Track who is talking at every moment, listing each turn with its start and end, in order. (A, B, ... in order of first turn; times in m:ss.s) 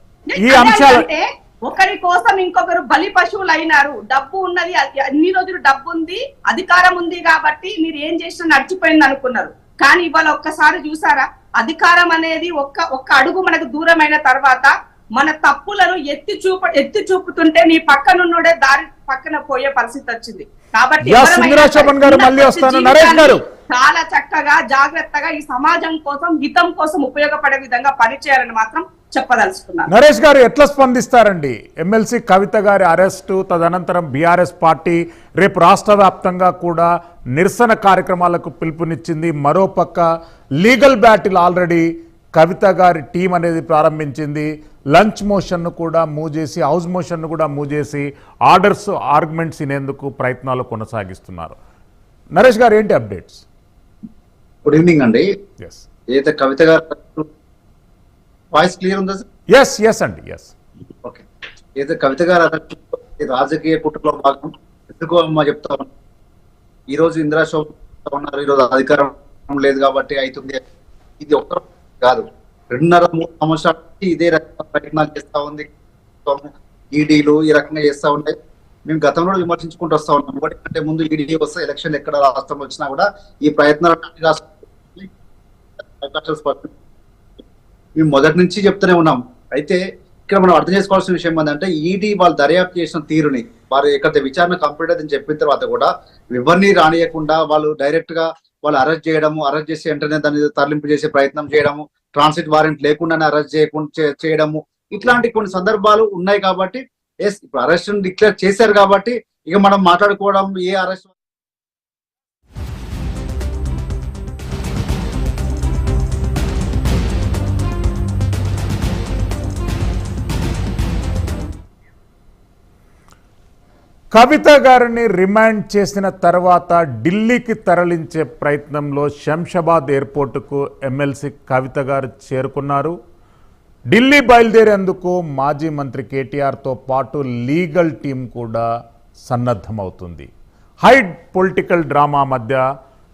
0:00.3-0:29.9 A
0:00.4-0:01.1 B
0:21.0-0:23.4 B
0:29.9-0:40.1 B
0:40.6-0:51.6 B
0:52.4-0:53.4 B
0:54.6-0:55.3 C
0:56.1-0:57.3 C
0:58.5-0:59.2 C
0:59.5-1:00.5 B
1:01.8-1:05.9 C
1:06.9-1:10.6 C
1:11.2-1:15.7 C
1:16.2-1:25.1 C
1:25.8-1:26.8 C
1:28.0-1:51.1 C
2:04.1-2:13.0 B
2:13.9-2:18.7 B
2:19.3-2:20.3 B
2:20.8-2:22.6 B